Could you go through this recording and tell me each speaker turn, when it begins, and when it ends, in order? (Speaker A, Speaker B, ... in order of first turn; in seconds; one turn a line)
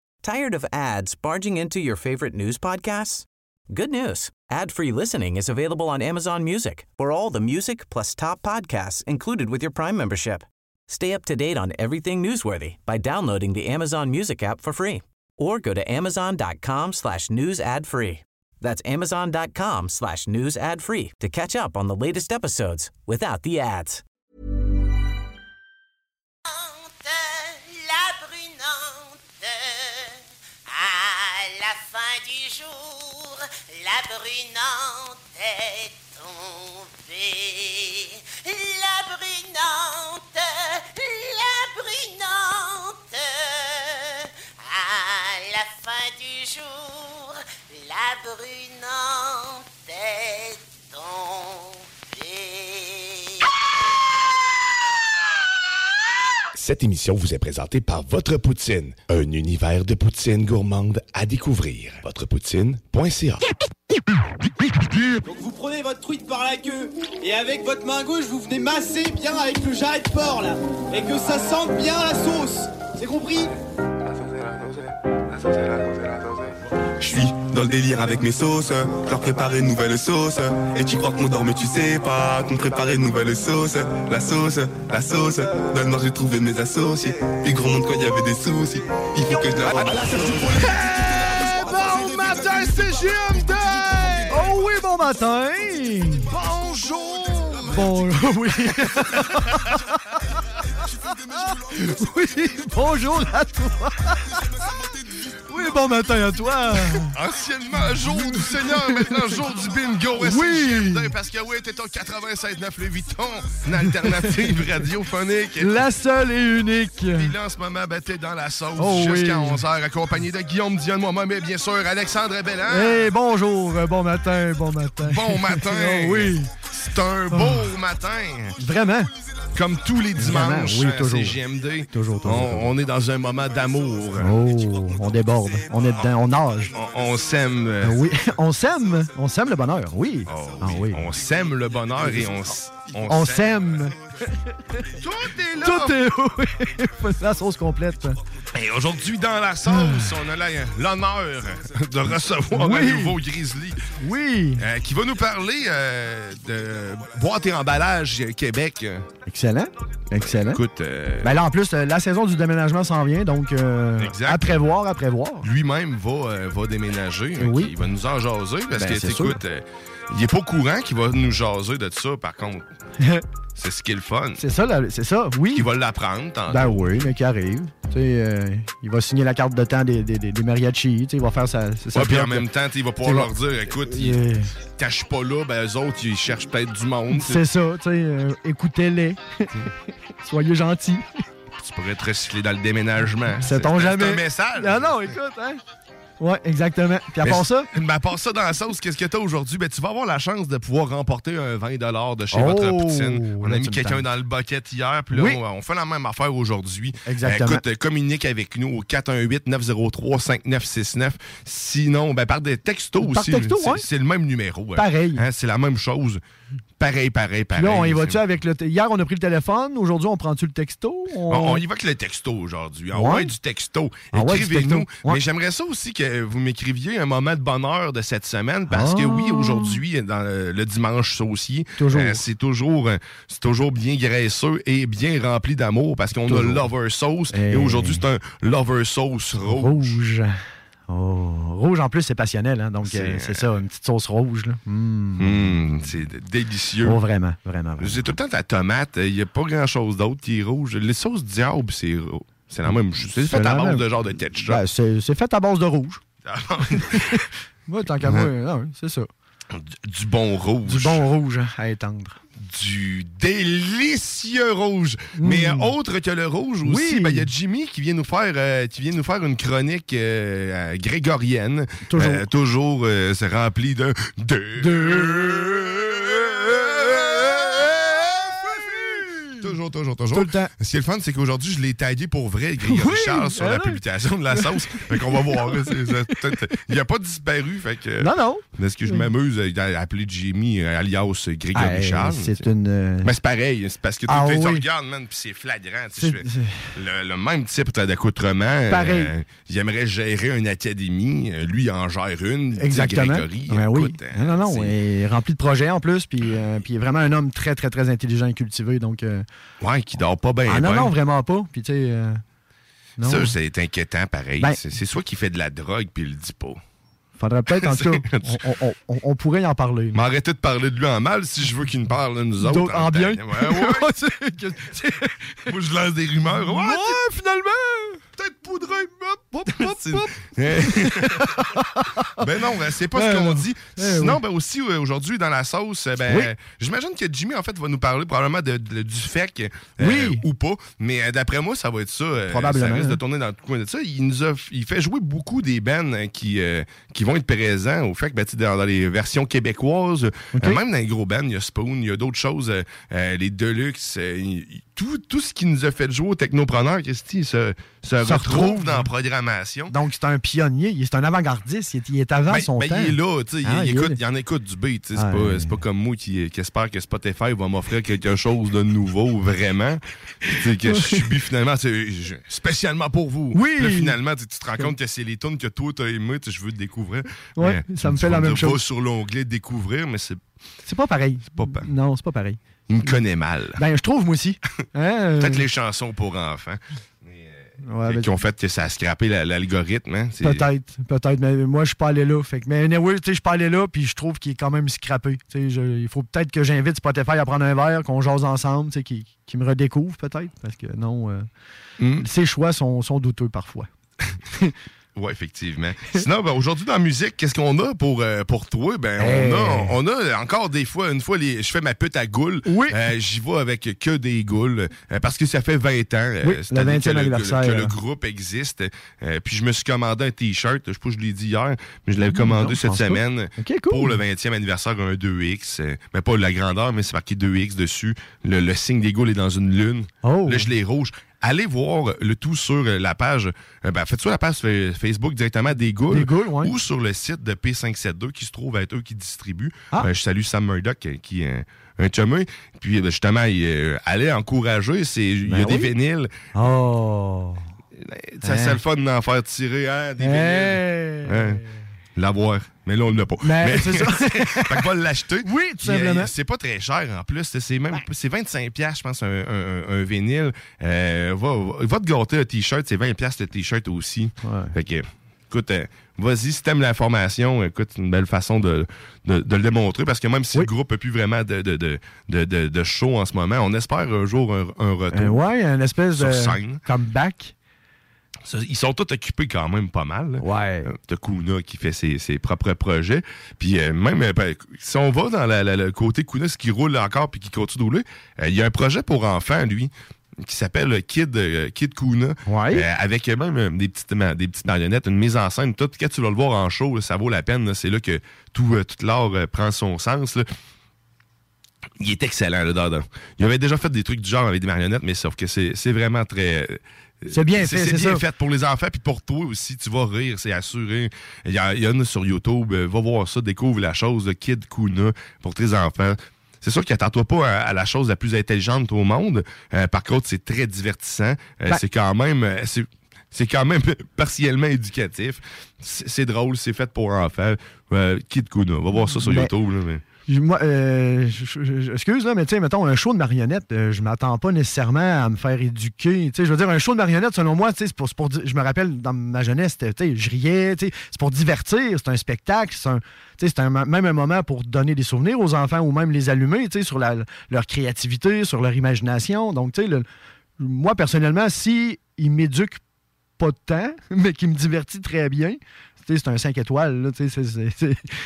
Speaker A: 0.2-24.0
Speaker B: 26.5-30.1
Speaker B: 30.7-53.3
Speaker C: 56.5-63.5
Speaker D: 65.2-66.6
Speaker D: 67.2-73.3
Speaker C: 74.2-74.8
Speaker C: 75.4-76.5
Speaker E: 77.0-89.9
Speaker F: 91.5-93.5
Speaker G: 94.3-96.3
Speaker F: 96.3-97.9
Speaker G: 97.7-99.9
Speaker G: 101.5-104.2
Speaker G: 105.5-107.1
Speaker F: 107.1-115.9
Speaker G: 108.0-109.3
Speaker G: 110.2-111.1
Speaker G: 114.0-114.4
Speaker G: 115.6-117.3
Speaker F: 117.1-123.1
Speaker G: 118.8-119.6
Speaker G: 122.7-126.5
Speaker F: 125.0-128.6
Speaker G: 127.3-127.7
Speaker G: 128.6-129.1
Speaker F: 129.5-134.4
Speaker G: 130.2-131.4
Speaker G: 131.9-132.7
Speaker G: 134.2-136.7
Speaker F: 136.7-138.1
Speaker G: 137.8-141.1
Speaker F: 140.3-143.9
Speaker G: 142.0-142.3
Speaker G: 143.1-143.9
Speaker F: 145.0-146.0
Speaker G: 145.6-148.2
Speaker F: 148.5-153.8
Speaker G: 149.7-150.1
Speaker G: 152.5-153.2
Speaker G: 154.0-154.7
Speaker F: 154.6-159.1
Speaker G: 159.3-160.6
Speaker F: 160.2-161.3
Speaker G: 161.2-165.5
Speaker F: 164.0-164.6
Speaker F: 165.4-172.7
Speaker G: 167.4-167.7
Speaker G: 168.8-169.4
Speaker F: 173.6-174.4
Speaker G: 174.4-175.7
Speaker F: 175.5-177.0
Speaker G: 176.5-182.4
Speaker F: 181.9-184.2
Speaker G: 183.0-183.3
Speaker G: 183.9-184.5
Speaker F: 184.8-187.4
Speaker G: 187.1-189.7
Speaker G: 190.2-191.1
Speaker F: 191.6-195.1
Speaker G: 193.4-195.6
Speaker G: 196.2-197.7
Speaker F: 197.2-216.2
Speaker G: 202.3-204.0
Speaker G: 205.1-205.4
Speaker G: 207.1-207.6
Speaker G: 213.0-213.8
Speaker G: 214.8-215.2
Speaker F: 216.8-218.2
Speaker G: 217.6-221.6
Speaker F: 221.3-239.9
Speaker G: 222.9-223.3
Speaker G: 224.1-225.2
Speaker G: 228.7-229.8
Speaker G: 231.8-232.2
Speaker G: 236.3-236.7
Speaker G: 237.3-238.0
Speaker G: 239.4-240.4
Speaker G: 240.9-245.6
Speaker F: 242.8-243.4
Speaker F: 245.2-247.0
Speaker G: 246.8-248.1
Speaker F: 247.8-254.6
Speaker G: 253.2-253.8
Speaker G: 254.4-256.0
Speaker F: 256.2-257.2
Speaker G: 256.7-257.1
Speaker G: 257.7-259.1
Speaker F: 258.0-258.3
Speaker F: 259.5-261.1
Speaker G: 260.7-262.2
Speaker F: 262.4-278.6
Speaker G: 265.2-265.7
Speaker G: 266.6-267.3
Speaker G: 271.9-272.2
Speaker G: 274.6-275.5
Speaker G: 278.6-279.4
Speaker F: 279.4-292.4
Speaker G: 280.1-280.5
Speaker G: 282.6-283.8
Speaker G: 284.3-285.8
Speaker G: 288.0-289.1
Speaker G: 291.6-293.1
Speaker F: 293.0-304.7
Speaker G: 294.1-294.6
Speaker G: 296.0-296.7
Speaker G: 298.7-299.1
Speaker G: 302.6-309.2
Speaker F: 309.6-310.9
Speaker G: 310.5-312.2
Speaker G: 313.0-313.3
Speaker F: 313.0-316.6
Speaker G: 317.2-320.0
Speaker F: 317.6-318.4
Speaker F: 319.9-323.9
Speaker G: 322.4-325.4
Speaker F: 325.5-327.0
Speaker G: 326.3-328.0
Speaker F: 328.2-331.2
Speaker G: 329.3-330.1
Speaker G: 330.7-332.2
Speaker F: 332.2-359.7
Speaker G: 332.9-334.2
Speaker G: 339.8-340.2
Speaker G: 342.3-343.0
Speaker G: 350.3-350.6
Speaker G: 358.0-358.9
Speaker G: 359.7-364.0
Speaker F: 362.3-380.2
Speaker G: 365.0-365.5
Speaker G: 370.7-371.0
Speaker G: 373.3-374.0
Speaker G: 377.4-378.6
Speaker G: 380.7-382.4
Speaker F: 381.4-381.7
Speaker F: 382.7-383.6
Speaker G: 383.6-385.4
Speaker F: 385.2-390.4
Speaker G: 387.6-388.1
Speaker G: 390.2-401.3
Speaker F: 401.8-402.1
Speaker G: 402.0-403.7
Speaker F: 405.0-446.1
Speaker G: 409.0-409.8
Speaker G: 412.5-412.8
Speaker G: 416.2-417.7
Speaker G: 422.1-424.0
Speaker G: 430.0-430.5
Speaker G: 435.9-436.5
Speaker G: 445.3-445.7
Speaker G: 446.4-447.4
Speaker F: 447.8-451.4
Speaker G: 448.2-448.6
Speaker G: 450.0-451.5
Speaker F: 452.0-475.2
Speaker G: 453.2-454.6
Speaker G: 455.2-456.1
Speaker G: 464.2-464.5
Speaker G: 474.9-477.4
Speaker F: 475.9-476.6
Speaker F: 478.2-500.3
Speaker G: 480.2-480.7
Speaker G: 492.3-492.6
Speaker F: 501.8-529.8
Speaker G: 507.1-508.0
Speaker G: 529.0-529.3
Speaker G: 530.1-549.9
Speaker G: 550.4-552.6
Speaker G: 553.2-557.8